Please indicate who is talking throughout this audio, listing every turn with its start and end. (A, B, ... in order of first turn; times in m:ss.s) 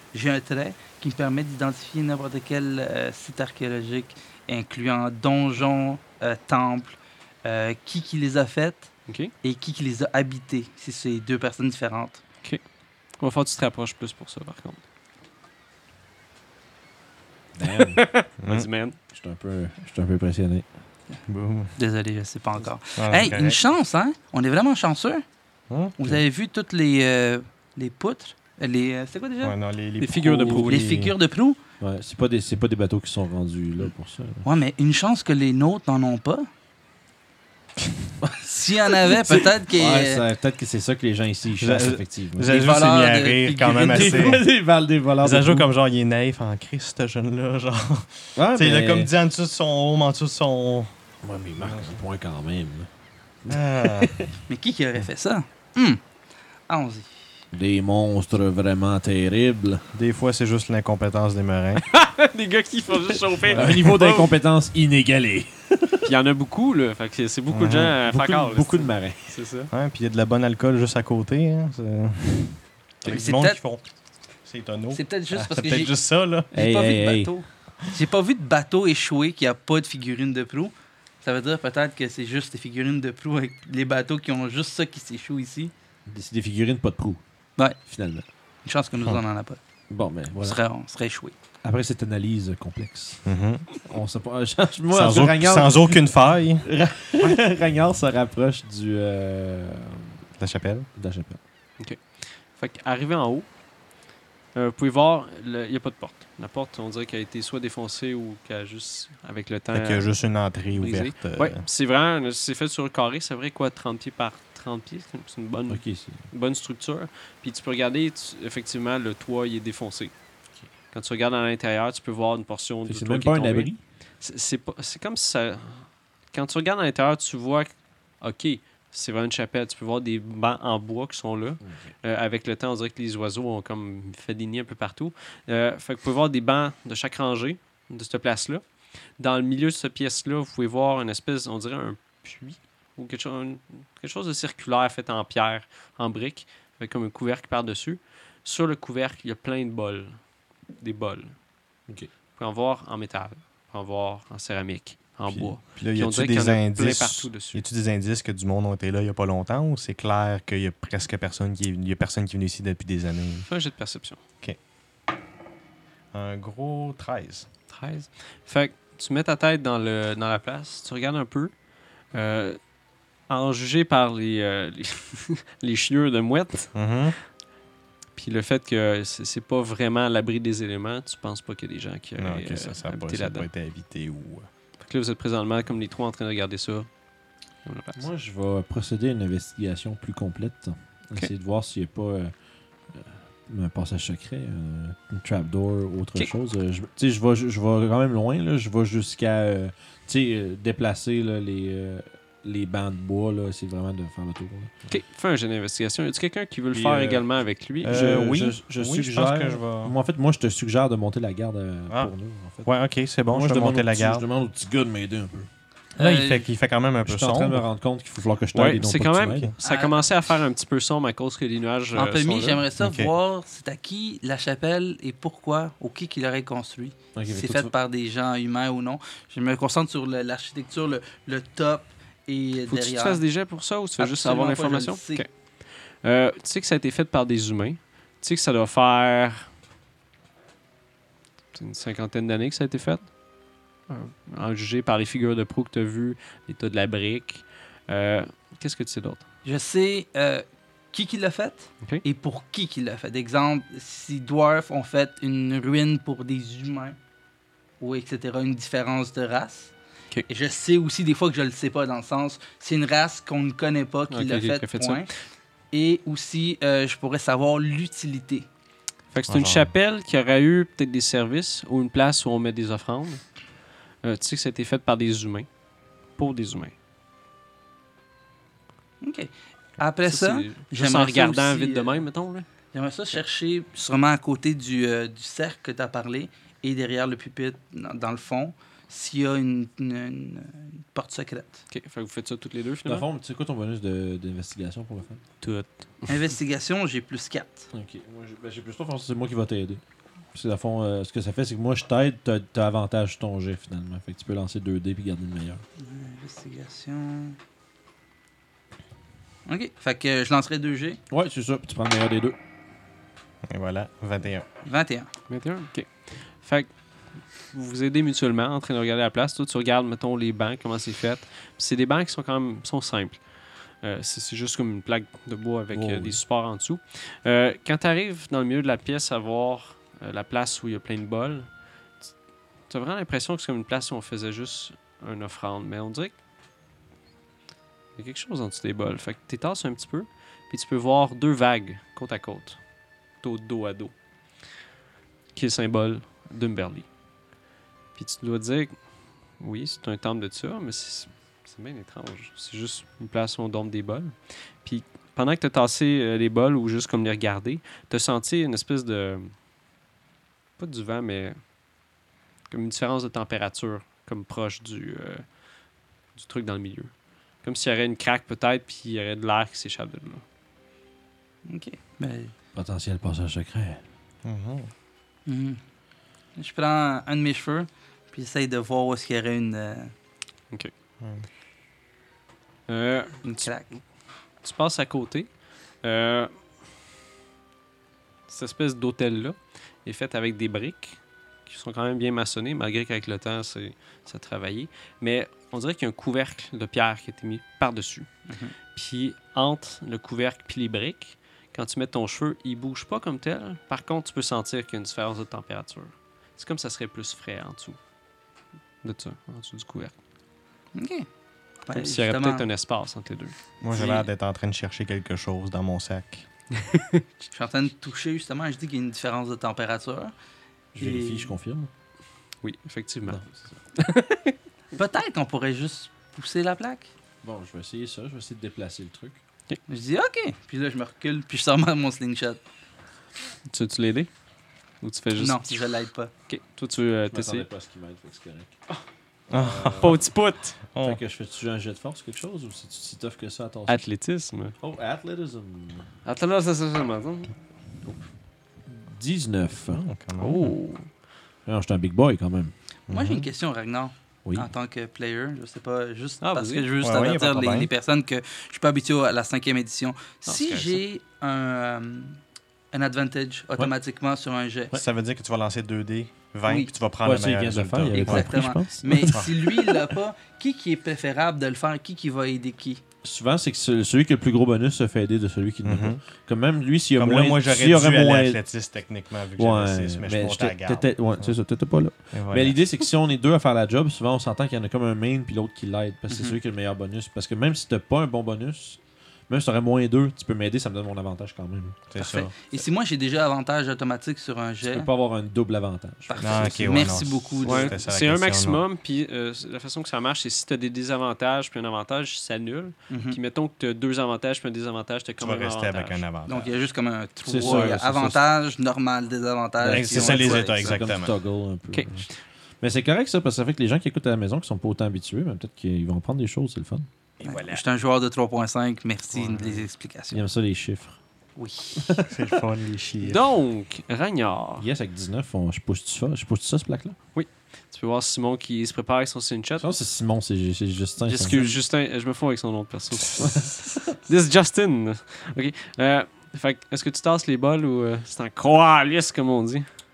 0:00.1-0:12.2 A
0:09.1-0:09.3 B
0:13.2-0:14.8 B
0:17.6-0:18.0 C
0:17.6-0:19.0 B
0:18.4-0:18.7 D
0:19.1-0:20.7 C
0:21.3-0:21.7 D
0:21.8-0:25.2 A
0:23.0-0:23.6 D
0:25.7-0:26.2 D
0:26.0-0:29.6 A
0:29.4-0:31.1 D
0:30.0-0:30.9 B
0:30.7-0:31.6 A
0:31.8-0:34.4 C
0:34.4-0:36.5 A
0:38.4-0:40.2 A
0:39.0-0:42.6 C
0:41.6-0:44.4 D
0:42.4-0:44.4 A
0:43.9-0:45.7 C
0:45.2-0:50.9 D
0:48.4-0:49.1 C
0:51.2-0:52.9 C
0:51.6-0:52.0 D
0:53.4-0:54.3 C
0:53.5-0:54.1 D
0:54.5-0:56.0 A
0:56.7-0:57.2 A
0:57.5-0:59.8 C
0:59.9-1:01.8 D
1:01.9-1:04.3 B
1:03.5-1:03.9 D
1:03.5-1:06.1 C
1:06.0-1:09.7 B
1:07.5-1:08.0 D
1:08.1-1:09.4 C
1:09.7-1:13.8 D
1:13.0-1:13.6 A
1:14.4-1:16.5 D
1:14.9-1:16.0 A
1:16.5-1:25.7 A
1:16.5-1:17.3 C
1:26.1-1:27.2 C
1:27.8-1:28.2 C
1:28.6-1:29.6 A
1:29.9-1:30.6 C
1:30.4-1:31.4 A
1:31.6-1:33.2 C
1:33.2-1:33.7 D
1:33.8-1:36.1 C
1:34.9-1:36.7 D
1:36.6-1:40.2 C
1:40.4-1:40.9 D
1:41.0-1:41.4 C
1:41.8-1:43.5 B
1:44.6-1:50.1 B
1:49.7-1:51.6 D
1:50.7-2:00.1 B
1:55.7-1:56.3 C
2:00.9-2:18.6 B
2:02.9-2:03.8 C
2:11.6-2:11.9 C
2:19.2-2:30.2 B
2:30.8-2:31.4 B
2:32.4-2:37.6 B
2:35.3-2:43.5 D
2:43.5-2:44.2 B
2:46.1-2:47.5 D
2:47.7-2:51.5 B
2:52.1-2:52.6 B
2:53.3-2:56.7 B
2:56.7-2:57.2 D
2:58.2-3:03.5 B
3:02.2-3:04.5 D
3:04.8-3:06.9 B
3:07.6-3:08.0 B
3:08.0-3:12.3 C
3:12.9-3:24.7 C
3:24.9-3:28.2 B
3:26.7-3:27.3 C
3:27.8-3:30.0 D
3:27.8-3:32.7 C
3:32.6-3:34.2 D
3:33.3-3:35.5 C
3:36.0-3:36.5 A
3:36.0-3:37.6 D
3:37.0-3:39.5 C
3:38.5-3:42.6 B
3:39.6-3:40.0 A
3:42.0-3:53.2 A
3:42.8-3:43.1 D
3:47.2-3:47.7 C
3:52.7-3:59.5 B
3:54.0-3:55.2 A
4:01.5-4:03.1 B
4:03.9-4:09.2 B
4:09.4-4:17.0 A
4:17.8-4:19.7 A
4:20.3-4:25.1 A
4:24.1-4:25.1 B
4:25.7-4:28.5 A
4:29.1-4:33.2 B
4:29.3-4:29.7 D
4:34.0-4:35.5 B
4:36.2-4:36.7 B
4:39.0-4:42.0 A
4:40.0-4:42.5 B
4:42.7-4:51.6 A
4:51.7-4:53.0 B
4:52.9-4:55.2 C
4:55.4-4:56.2 B
4:56.1-4:57.7 A
4:57.7-4:59.8 C
5:00.3-5:05.6 C
5:05.8-5:07.4 A
5:09.5-5:11.0 A
5:11.1-5:12.4 C
5:13.5-5:14.4 D
5:14.6-5:15.1 A
5:15.3-5:16.8 B
5:17.5-5:31.5 B
5:25.7-5:26.2 C
5:32.7-5:36.2 B
5:38.0-5:42.6 B
5:43.2-5:43.9 B
5:45.4-5:46.9 B
5:48.0-5:48.8 B
5:49.4-5:59.3 B
6:00.6-6:01.4 B
6:02.5-6:05.3 B
6:06.2-6:10.2 B
6:11.5-6:12.3 A
6:12.5-6:13.8 C
6:14.2-6:14.7 D
6:15.3-6:15.6 A
6:16.4-6:19.9 A
6:21.0-6:21.3 D
6:22.7-6:23.5 B
6:23.2-6:23.7 A
6:24.4-6:26.3 B
6:28.3-6:38.1 B
6:38.3-6:38.5 A
6:38.7-6:47.8 B
6:48.8-6:49.9 B
6:50.8-6:51.1 A
6:51.7-6:52.5 A
6:51.7-6:54.1 B
6:53.6-6:56.3 D
6:56.5-6:57.0 B
6:57.3-7:00.1 A
7:00.8-7:01.7 C
7:00.8-7:01.3 A
7:02.4-7:03.2 B
7:03.1-7:03.5 C
7:03.8-7:04.4 B
7:04.7-7:06.9 A
7:07.2-7:09.2 C
7:09.7-7:12.4 A
7:13.5-7:14.1 B
7:14.8-7:15.5 B
7:15.2-7:16.1 A
7:16.3-7:17.5 B
7:17.1-7:18.6 C
7:19.3-7:20.0 C
7:19.3-7:20.1 D
7:19.8-7:20.6 B
7:20.7-7:21.0 D
7:20.8-7:23.8 C
7:23.7-7:24.6 B
7:24.6-7:25.9 C
7:26.0-7:28.0 B
7:28.7-7:29.8 C
7:29.7-7:30.6 D
7:30.2-7:30.9 B
7:31.5-7:32.5 C
7:32.9-7:33.3 D
7:32.9-7:42.2 A
7:36.2-7:36.7 B
7:36.8-7:37.7 D
7:40.2-7:40.8 B
7:42.7-7:44.8 A
7:44.7-7:48.4 D
7:46.5-7:46.7 A
7:47.0-7:49.7 C
7:47.9-7:52.8 A
7:53.0-7:58.4 C
7:55.6-7:56.0 D
7:57.0-8:01.4 D
7:59.4-8:11.8 C
8:02.1-8:02.6 D
8:06.1-8:06.4 A
8:11.9-8:12.4 D
8:12.0-8:14.9 A
8:14.7-8:17.1 C
8:16.1-8:17.8 A
8:16.2-8:18.6 D
8:17.4-8:26.0 B
8:22.9-8:23.2 A
8:25.2-8:26.5 D
8:26.3-8:30.8 A
8:27.2-8:28.2 C
8:29.6-8:32.1 C
8:29.6-8:31.1 D
8:31.7-8:32.1 B
8:32.6-8:36.9 C
8:37.2-8:37.6 D
8:37.2-8:40.2 A
8:40.1-8:41.0 C
8:41.4-8:42.0 A
8:41.8-8:42.4 C
8:42.1-8:43.2 D
8:43.0-8:44.7 B
8:44.6-8:47.0 C
8:47.2-8:49.7 B
8:49.6-8:51.4 C
8:51.0-8:51.6 A
8:51.2-8:59.7 B
8:53.2-8:53.8 C